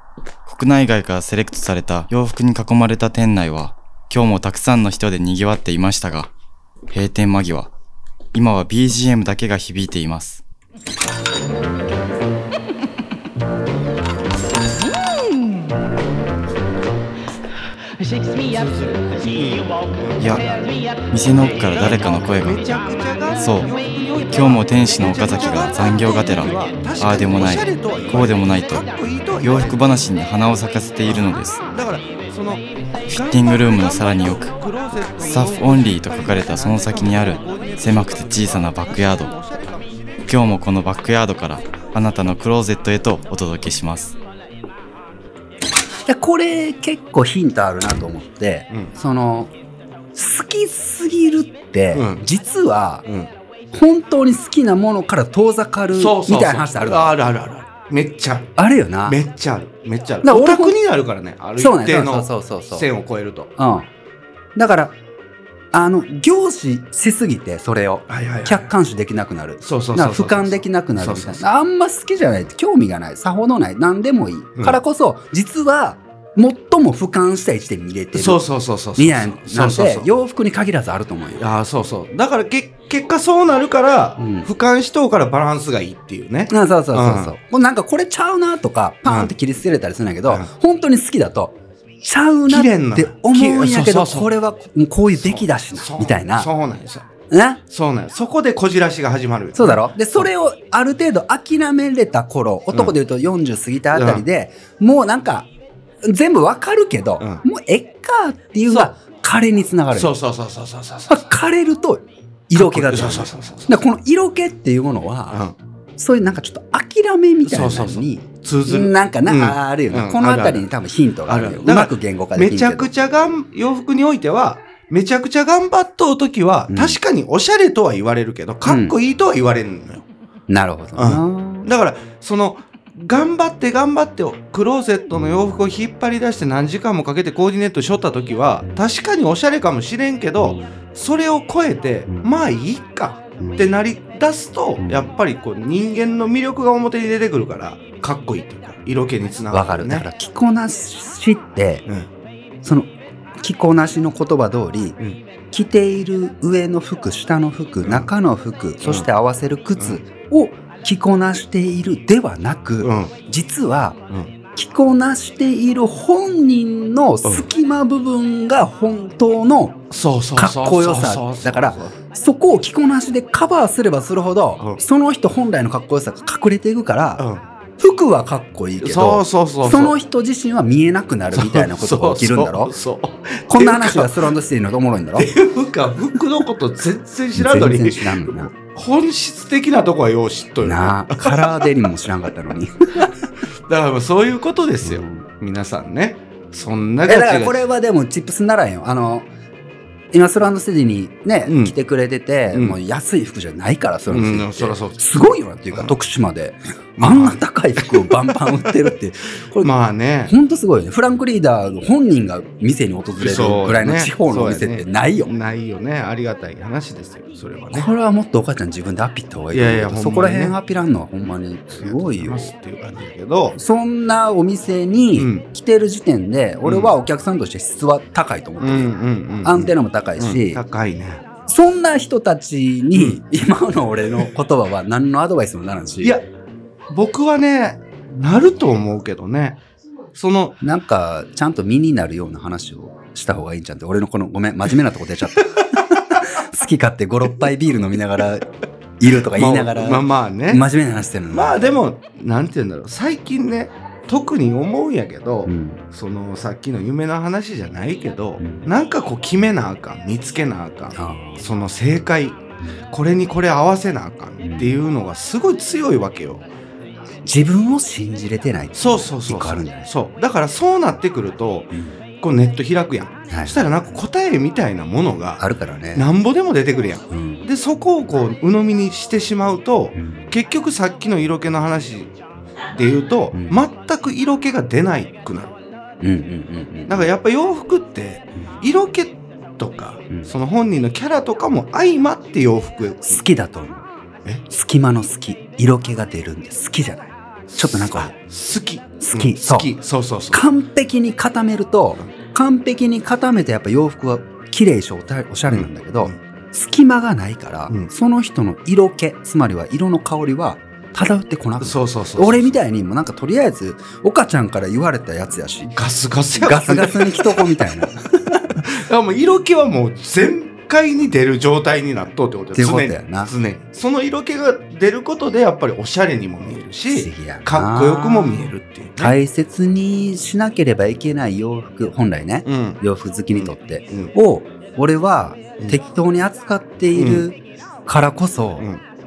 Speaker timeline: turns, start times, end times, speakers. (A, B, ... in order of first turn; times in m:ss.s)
0:00.4-0:06.3 A
0:06.9-0:07.7 A
0:08.3-0:10.4 A
0:18.4-0:20.5 B
0:20.2-0:20.4 A
0:21.1-0:22.6 A
0:21.3-0:30.1 B
0:23.4-0:23.7 A
0:24.3-0:28.8 A
0:29.4-0:31.6 A
0:31.0-0:40.6 B
0:33.1-0:34.5 A
0:35.2-0:39.3 A
0:40.3-0:44.1 A
0:46.1-0:49.5 C
0:50.1-0:53.0 C
0:51.9-0:52.2 B
0:53.0-0:53.3 B
0:53.7-0:57.1 C
0:55.9-0:58.5 B
0:58.6-0:59.2 C
0:59.0-1:03.5 B
1:00.2-1:00.8 C
1:01.6-1:02.9 C
1:03.6-1:03.9 C
1:04.6-1:04.9 C
1:05.7-1:18.4 C
1:08.1-1:08.7 B
1:09.6-1:11.4 B
1:18.1-1:20.1 B
1:19.0-1:21.4 C
1:21.4-1:27.3 B
1:24.2-1:24.5 C
1:26.5-1:36.5 C
1:29.1-1:29.3 B
1:32.5-1:34.3 B
1:35.2-1:37.1 B
1:37.3-1:37.6 C
1:37.7-1:40.3 B
1:39.5-1:45.5 C
1:43.9-1:44.2 B
1:46.0-1:50.1 C
1:48.7-1:48.9 B
1:49.9-1:51.3 B
1:51.1-1:55.4 C
1:52.5-1:53.8 B
1:55.3-1:55.5 B
1:56.0-2:02.9 C
1:57.4-2:00.6 B
2:01.3-2:10.0 B
2:06.7-2:07.0 C
2:08.6-2:08.9 C
2:10.5-2:11.7 C
2:11.0-2:30.1 B
2:20.4-2:20.7 C
2:23.4-2:23.7 C
2:24.8-2:25.1 C
2:29.5-2:31.8 C
2:32.6-2:35.0 C
2:35.5-2:44.0 C
2:37.8-2:38.1 B
2:38.8-2:39.1 B
2:42.8-2:43.1 B
2:44.6-2:49.8 C
2:49.9-2:51.9 B
2:50.4-2:57.2 C
2:57.2-2:57.4 B
2:57.8-3:02.7 C
2:58.8-3:00.0 B
3:01.3-3:04.3 B
3:03.5-3:05.3 C
3:05.1-3:11.9 B
3:07.3-3:08.5 C
3:10.6-3:13.1 C
3:13.7-3:17.6 B
3:14.8-3:15.2 C
3:17.0-3:19.3 C
3:20.1-3:29.7 C
3:21.4-3:21.7 B
3:22.5-3:22.8 B
3:24.1-3:25.0 B
3:27.0-3:28.9 B
3:29.6-3:30.3 B
3:30.2-3:35.3 C
3:33.2-3:37.9 B
3:37.7-3:42.5 C
3:39.5-3:40.6 B
3:41.8-3:43.6 B
3:43.6-3:48.9 C
3:45.2-3:45.4 B
3:46.6-3:46.9 B
3:48.6-3:51.2 B
3:49.4-3:50.6 C
3:51.4-3:56.2 C
3:52.9-3:53.2 B
3:56.9-3:59.6 B
4:00.1-4:00.6 B
4:00.6-4:08.5 C
4:09.0-4:11.8 C
4:09.3-4:10.6 B
4:11.3-4:22.4 B
4:15.4-4:15.8 C
4:18.4-4:18.7 C
4:20.9-4:21.4 C
4:22.9-4:26.4 B
4:24.4-4:24.7 C
4:27.2-4:29.9 C
4:28.8-4:31.7 B
4:32.2-4:35.4 B
4:33.3-4:33.6 C
4:35.4-4:36.1 C
4:35.9-4:42.1 B
4:37.1-4:37.4 C
4:40.0-4:40.3 C
4:42.7-4:45.5 B
4:43.3-4:43.6 C
4:46.0-4:47.1 C
4:46.9-4:53.2 B
4:53.0-4:53.8 C
4:54.5-4:58.1 C
4:57.5-5:00.4 B
4:59.0-4:59.7 C
5:00.3-5:15.8 C
5:05.5-5:06.2 B
5:11.6-5:12.6 B
5:15.8-5:17.8 B
5:16.3-5:18.6 C
5:18.6-5:29.1 B
5:22.5-5:23.3 C
5:26.9-5:38.6 C
5:32.4-5:32.8 B
5:33.3-5:34.1 B
5:36.9-5:37.2 B